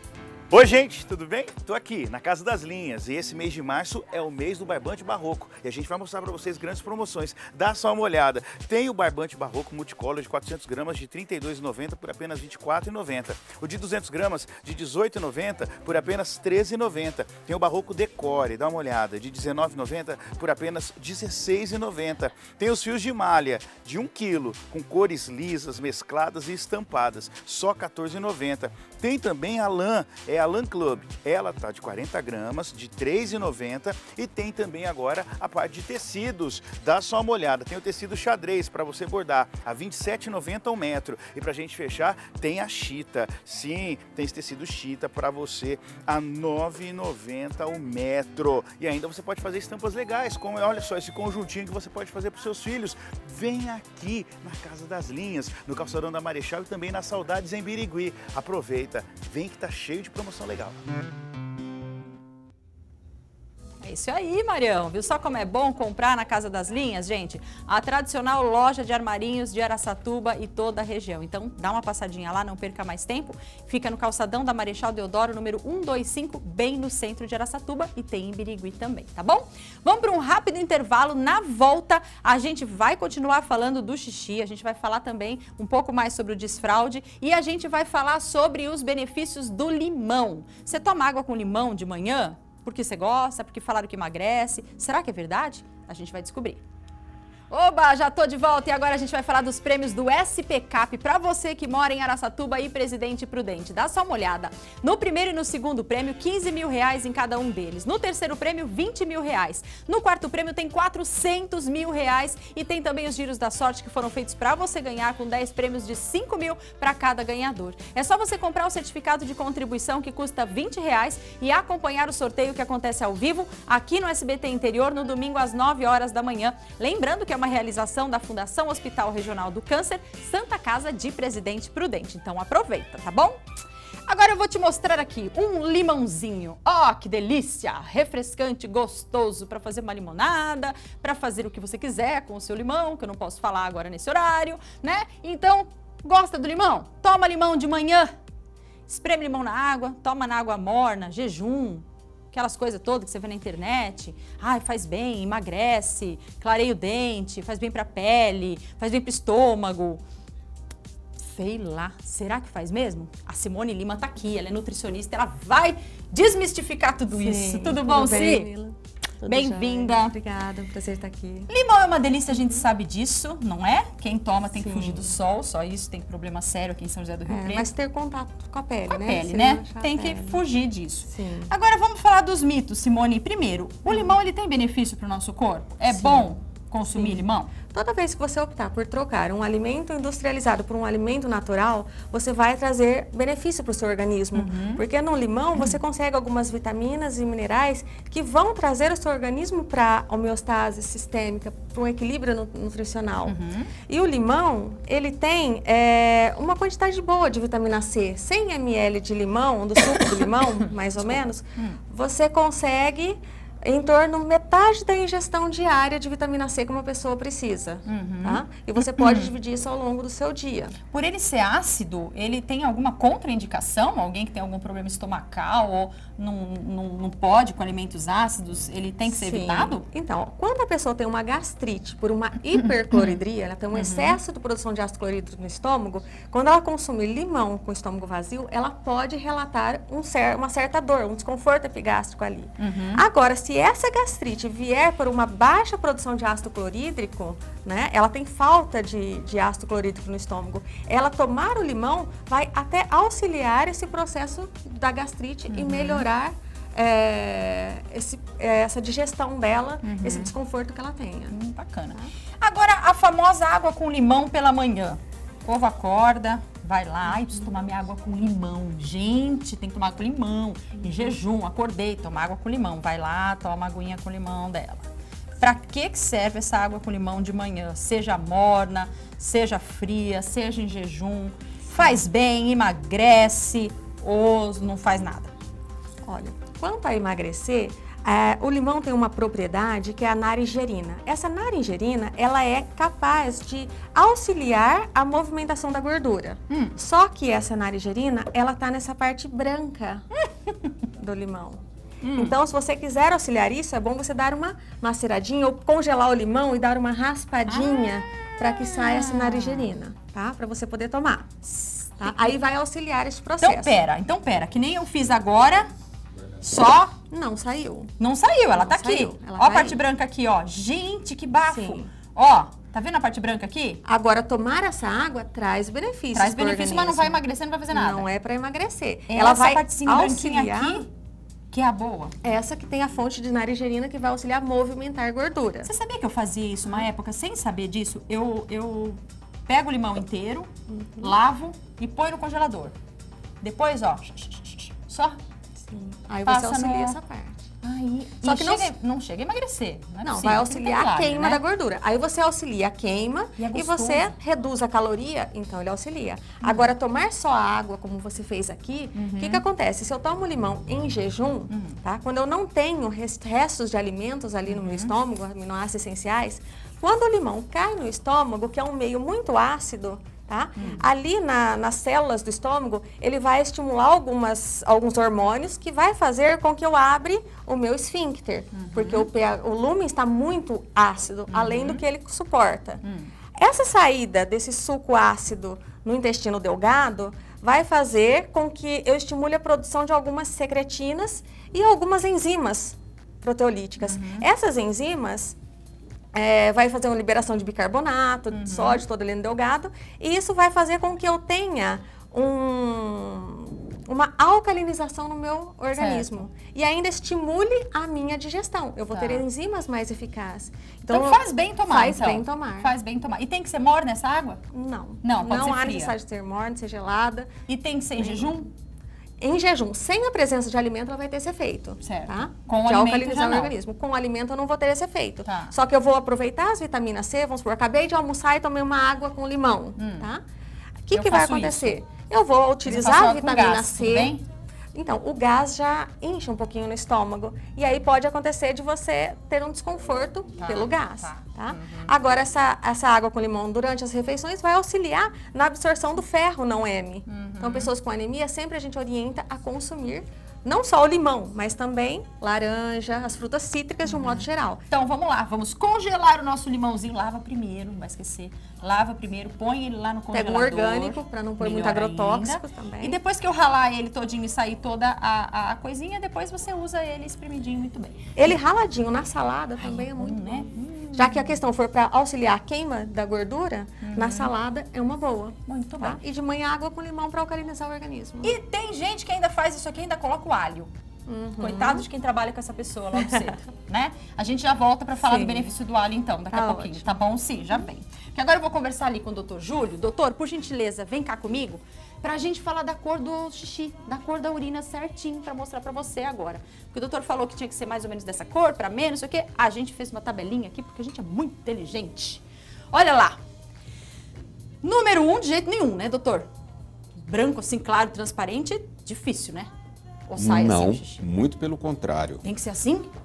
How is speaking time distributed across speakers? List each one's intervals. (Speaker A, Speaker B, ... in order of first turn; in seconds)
Speaker A: 0.5-60.8
Speaker B: 63.8-96.6, 97.5-133.4, 134.1-148.1, 148.9-160.0, 161.2-168.5, 169.2-170.1, 171.5-177.7, 178.9-187.5, 194.3-194.8, 203.3-203.7, 217.8-219.3, 220.9-229.8, 232.9-233.2, 233.7-234.2, 242.6-243.0, 255.5-256.0, 259.8-260.3, 261.3-274.9, 275.4-285.3, 296.5-296.7, 302.0-302.3, 307.5-309.7, 311.5-312.3, 313.4-315.7, 316.4-316.9, 318.0-323.8, 326.1-328.1, 329.1-330.9, 331.5-332.1, 335.6-342.7, 343.4-345.2, 346.2-347.0, 347.6-351.4, 353.4-354.1, 356.4-356.7, 358.9-359.4, 361.5-361.8, 364.5-364.9, 370.6-370.8, 378.5-379.1, 381.3-381.8, 382.8-383.1, 393.8-394.2, 398.3-398.8, 405.7-406.1, 408.9-409.2, 410.9-414.4, 415.0-415.9, 417.5-418.5, 421.8-423.5, 425.2-425.5, 429.8-430.1, 430.9-431.8, 432.6-434.2, 440.4-441.9, 447.1-447.7, 454.1-468.1, 469.6-471.3, 473.8-474.3, 475.4-476.0, 478.2-480.7, 481.4-503.2, 504.6-506.3, 507.0-509.5, 510.1-511.1, 512.2-512.9
Speaker C: 167.1-171.5, 174.6-175.1, 177.3-180.4, 181.1-181.5, 185.9-186.3, 186.9-220.8, 229.1-261.3, 286.0-300.1, 301.0-301.6, 302.1-311.3, 312.0-313.7, 317.1-317.9, 318.5-319.8, 321.5-321.9, 323.8-330.8, 332.2-335.7, 340.7-341.1, 345.7-347.4, 348.2-348.7, 350.0-382.8, 383.4-395.3, 396.1-412.7, 414.5-417.3, 418.0-418.4, 419.2-430.2, 430.9-434.2, 434.7-454.6, 460.1-463.0, 468.1-478.4, 481.1-481.9, 485.0-485.5, 486.3-486.8
Speaker D: 510.1-512.2